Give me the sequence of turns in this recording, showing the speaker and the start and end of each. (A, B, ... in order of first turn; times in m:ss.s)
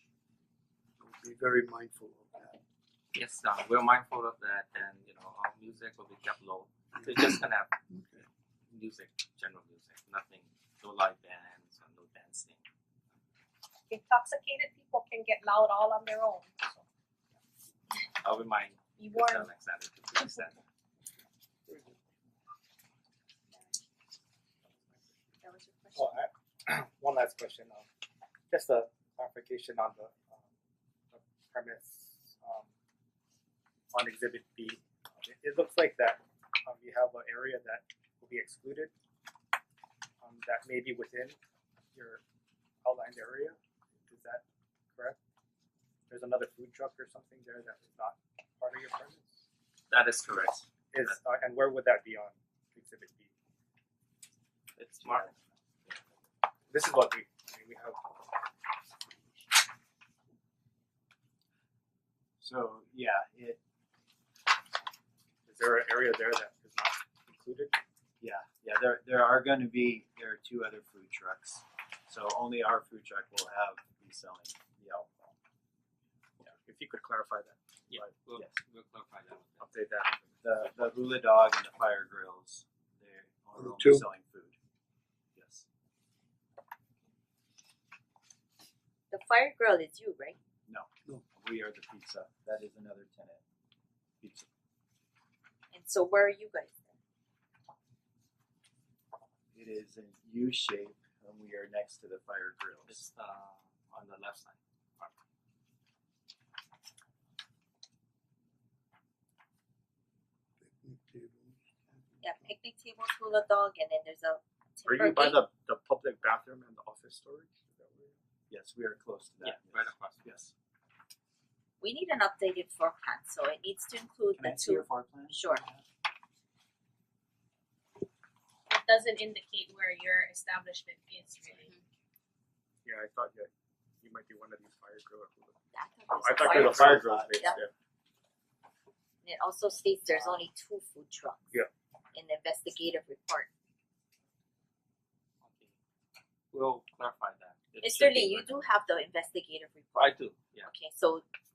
0:01.0-0:02.6 A
0:03.1-0:07.7 B
0:07.9-0:08.2 A
0:08.7-0:12.6 B
0:13.9-0:16.6 C
0:18.2-0:20.6 B
0:19.0-0:19.5 C
0:25.4-0:26.2 D
0:25.9-0:27.8 E
0:28.5-0:30.4 E
0:31.1-0:32.7 E
0:33.9-0:38.9 E
0:40.2-0:41.4 E
0:41.9-0:42.2 E
0:42.8-0:43.6 E
0:44.1-0:44.4 E
0:46.1-0:49.4 E
0:49.9-0:51.2 B
0:50.9-0:53.3 E
0:54.8-0:56.0 B
0:56.7-0:58.0 E
1:02.4-1:03.6 F
1:05.5-1:07.8 E
1:08.2-1:15.3 F
1:16.4-1:18.1 E
1:17.9-1:19.7 B
1:19.6-1:20.4 E
1:20.4-1:24.6 F
1:23.5-1:24.1 A
1:25.3-1:25.6 F
1:29.1-1:30.4 D
1:30.7-1:33.4 F
1:34.2-1:34.5 F
1:35.7-1:36.9 D
1:39.5-1:43.0 F
1:42.9-1:45.1 B
1:50.6-1:52.5 A
1:52.2-1:55.4 D
1:54.8-1:58.2 E
1:58.5-2:00.5 F
1:59.4-2:00.4 B
2:01.8-2:05.6 D
2:04.3-2:05.8 F
2:08.7-2:11.7 C
2:12.8-2:13.5 E
2:14.0-2:15.6 E
2:15.7-2:17.6 D
2:16.2-2:17.7 E
2:19.2-2:21.5 D
2:22.1-2:23.5 D
2:25.4-2:25.7 B
2:26.5-2:28.7 B
2:27.8-2:31.2 D
2:30.0-2:30.7 B